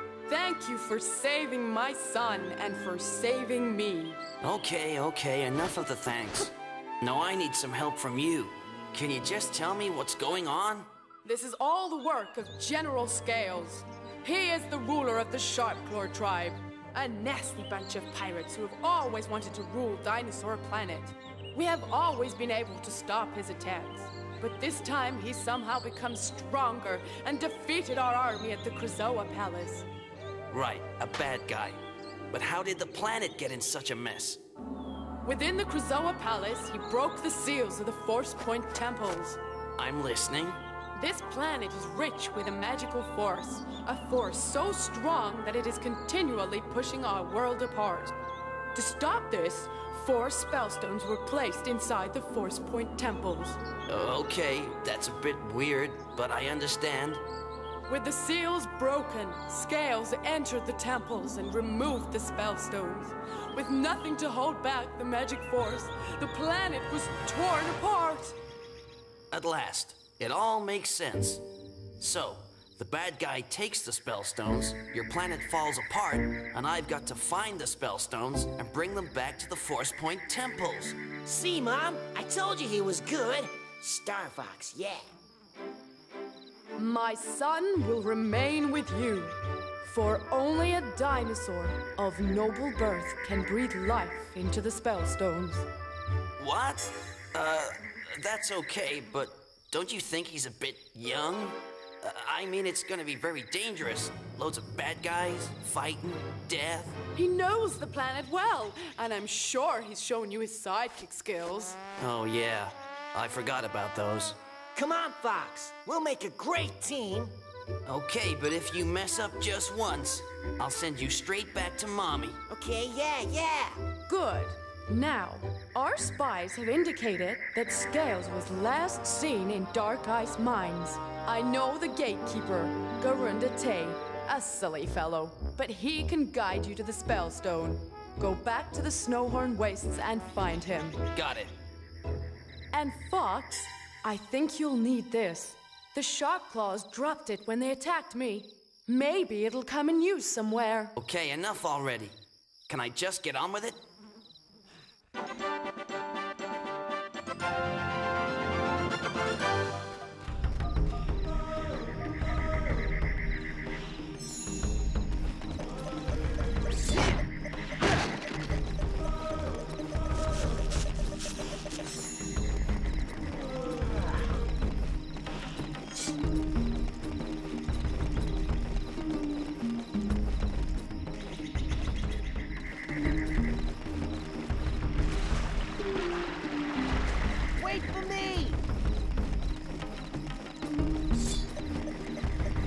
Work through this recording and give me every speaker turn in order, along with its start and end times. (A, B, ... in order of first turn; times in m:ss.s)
0:00.3-0:04.2 A
0:04.4-0:10.9 B
0:11.2-0:29.9 A
0:30.5-0:34.4 B
0:35.2-0:39.4 A
0:39.8-0:40.6 B
0:41.0-0:48.1 A
0:48.7-0:53.6 A
0:53.9-0:57.2 B
0:57.9-1:08.4 A
1:09.3-1:11.4 B
1:12.0-1:21.0 B
1:21.3-1:25.1 C
1:26.8-1:35.7 A
1:36.4-1:47.0 B
1:47.2-1:51.8 A
1:52.0-1:54.4 B
1:54.8-1:57.4 C
1:57.9-2:02.4 B
2:02.5-2:03.8 C
2:04.1-2:21.0 A
2:21.1-2:21.5 B
2:22.7-2:31.0 A
2:31.0-2:32.1 B
2:32.7-2:33.8 B
3:07.6-3:08.6 C